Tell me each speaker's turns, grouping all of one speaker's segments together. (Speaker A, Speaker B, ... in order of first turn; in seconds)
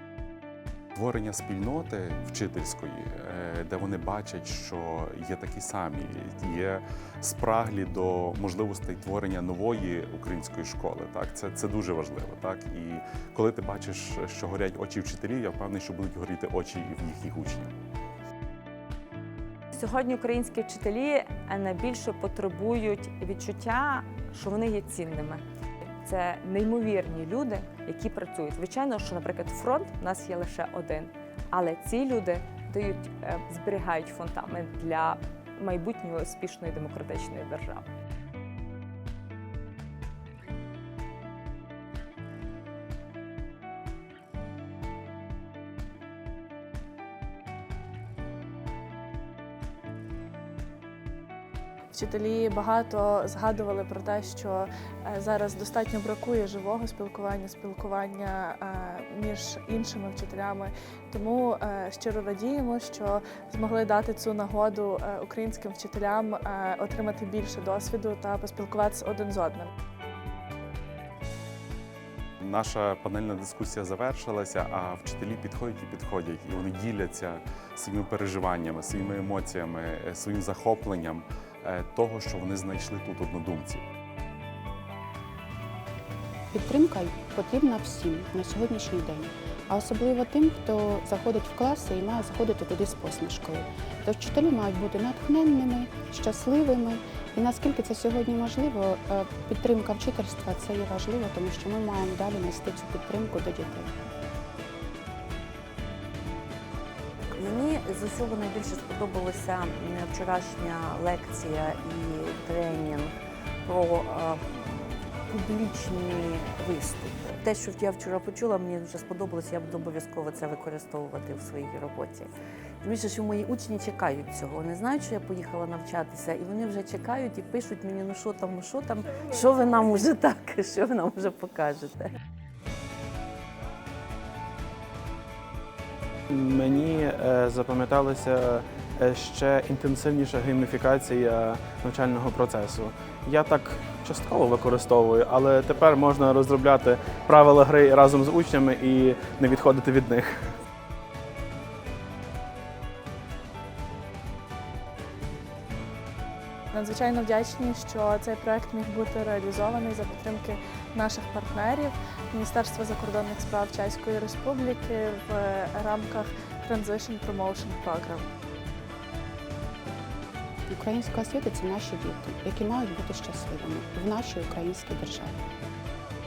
Speaker A: 0.9-17.7, 72.4-83.8
Speaker B: 19.7-25.4, 26.0-37.9
Speaker C: 51.9-69.7, 156.7-168.3
Speaker D: 86.5-103.9, 170.7-175.3
Speaker E: 107.3-114.4, 115.3-122.3, 122.8-132.1
Speaker F: 136.3-150.5